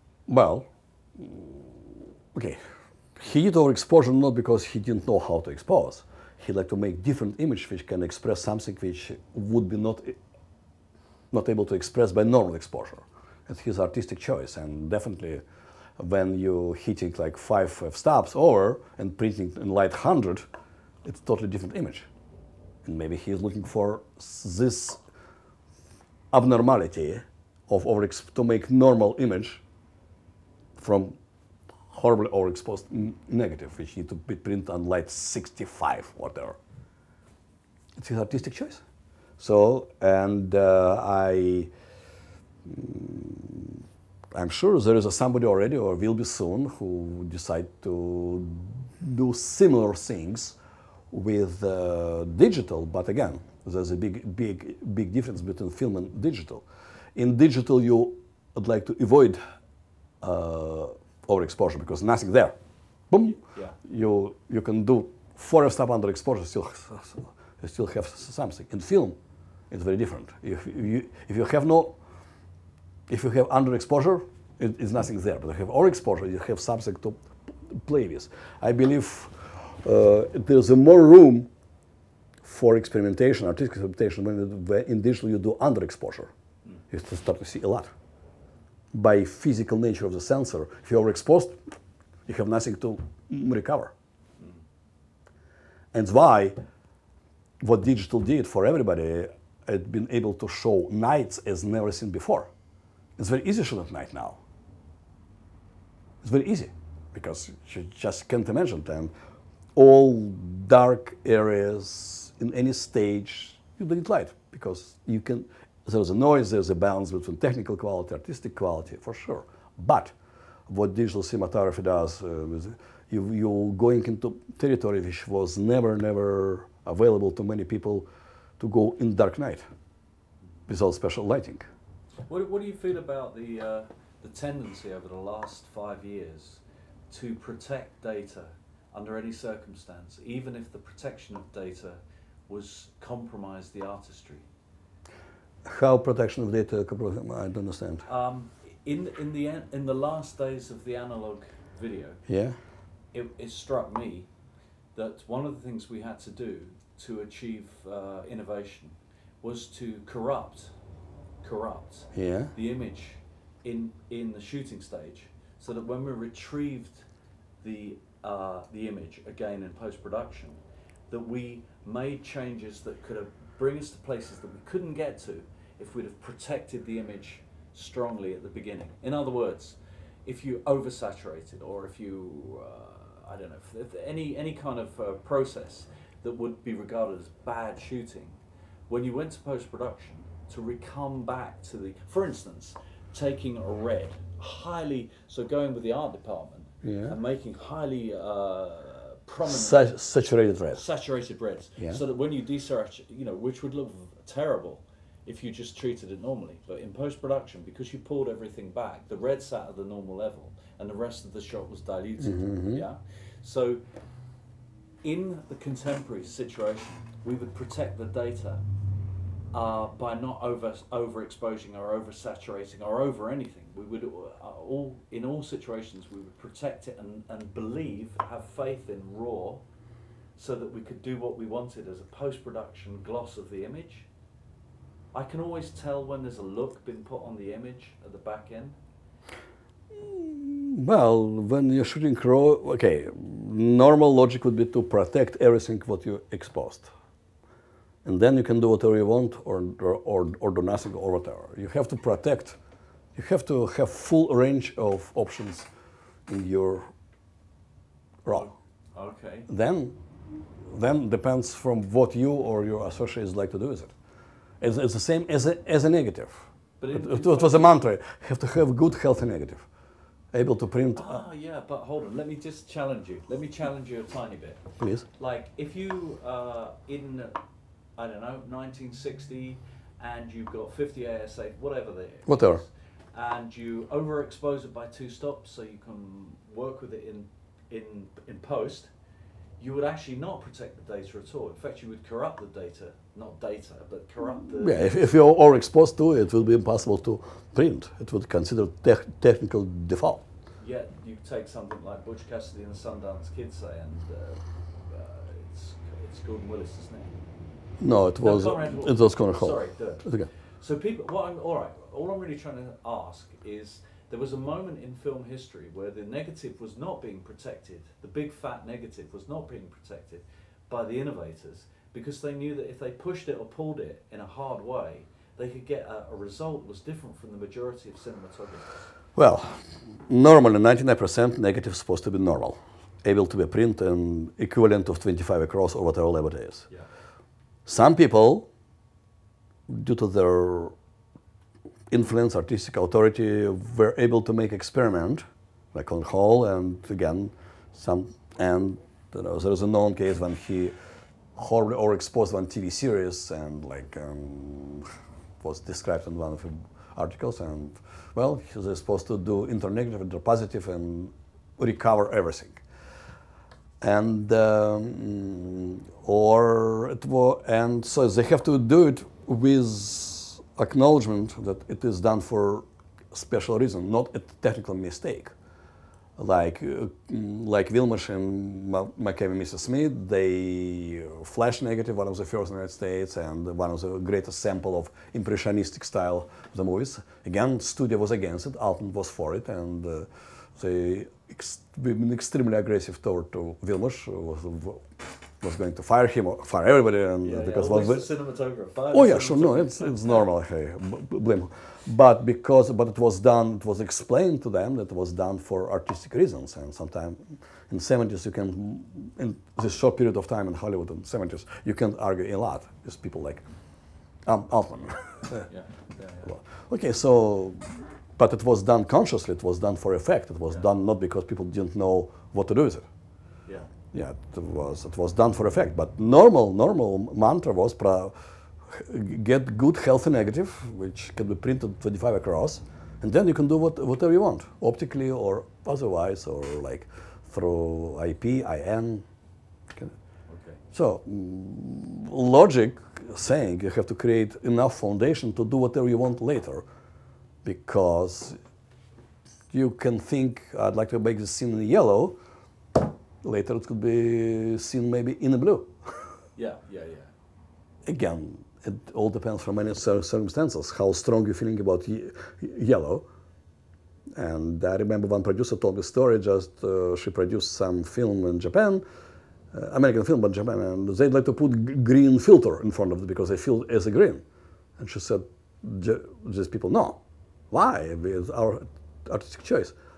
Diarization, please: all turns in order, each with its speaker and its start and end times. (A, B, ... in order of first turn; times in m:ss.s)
0:00.3-0:02.6 A
0:03.2-0:10.2 A
0:11.3-0:15.4 A
0:16.0-0:20.4 A
0:21.0-0:22.1 A
0:22.8-0:25.0 A
0:26.3-0:29.6 A
0:30.8-0:31.2 A
0:31.9-0:36.6 A
0:38.0-0:38.8 A
0:39.4-0:41.7 A
0:42.7-0:43.8 A
0:44.3-0:50.6 A
0:51.1-0:59.4 A
1:00.2-1:02.6 A
1:03.1-1:09.2 A
1:03.3-1:03.8 B
1:09.7-1:12.0 A
1:13.1-1:21.5 A
1:22.4-1:26.3 A
1:26.9-1:27.9 A
1:28.9-1:31.6 A
1:32.3-1:33.9 A
1:35.9-1:36.6 A
1:37.6-1:42.5 A
1:43.2-1:44.4 A
1:46.2-1:49.1 A
1:49.8-2:00.1 A
2:00.7-2:08.1 A
2:08.6-2:09.7 A
2:10.7-2:11.6 A
2:12.3-2:24.5 B
2:25.6-2:28.1 A
2:28.1-2:32.2 B
2:32.3-2:32.6 A
2:33.1-2:34.3 B
2:35.0-2:40.7 B
2:41.4-2:47.1 B
2:42.1-2:42.5 A
2:47.6-2:50.6 B
2:51.1-3:19.9 B
3:16.8-3:17.2 A
3:19.5-3:20.8 A
3:20.7-3:33.8 B
3:32.2-3:32.8 A
3:35.0-3:38.6 B
3:39.5-3:49.6 B
3:50.4-3:54.1 B
3:55.1-3:58.8 B
4:00.0-4:06.9 A
4:08.0-4:12.6 A
4:13.2-4:15.7 A
4:16.3-4:16.9 A
4:18.2-4:18.5 A
4:18.3-4:19.5 B
4:19.5-4:20.0 A
4:20.6-4:23.9 A
4:24.6-4:29.7 A
4:26.8-4:27.7 B
4:30.3-4:31.2 A
4:31.0-4:34.6 B
4:34.8-4:35.1 A
4:35.2-4:37.4 B
4:38.0-4:48.9 B
4:42.3-4:42.6 A
4:49.6-4:55.0 B
4:54.4-5:00.2 A
5:00.6-5:07.2 B
5:07.8-5:10.3 A
5:08.2-5:10.1 B
5:10.6-5:28.7 B
5:29.2-5:36.7 A
5:37.7-5:38.5 A
5:39.7-5:40.8 A
5:41.9-5:50.7 A
5:51.4-5:54.9 A
5:55.4-6:02.6 A
6:03.8-6:15.3 A
6:16.2-6:34.8 A
6:35.4-6:38.1 A
6:37.2-6:40.2 B
6:38.9-6:53.4 A
6:54.2-6:55.5 A
6:55.5-6:56.4 B
6:56.3-7:02.9 A
7:03.9-7:08.1 A
7:08.7-7:19.0 A
7:20.3-7:20.6 B
7:20.7-7:26.6 A
7:27.4-7:28.4 A
7:29.5-7:32.2 A
7:32.8-7:35.7 A
7:36.4-7:37.1 B
7:37.9-7:43.1 A
7:44.2-7:48.8 A
7:49.5-7:54.2 A
7:54.8-7:59.7 A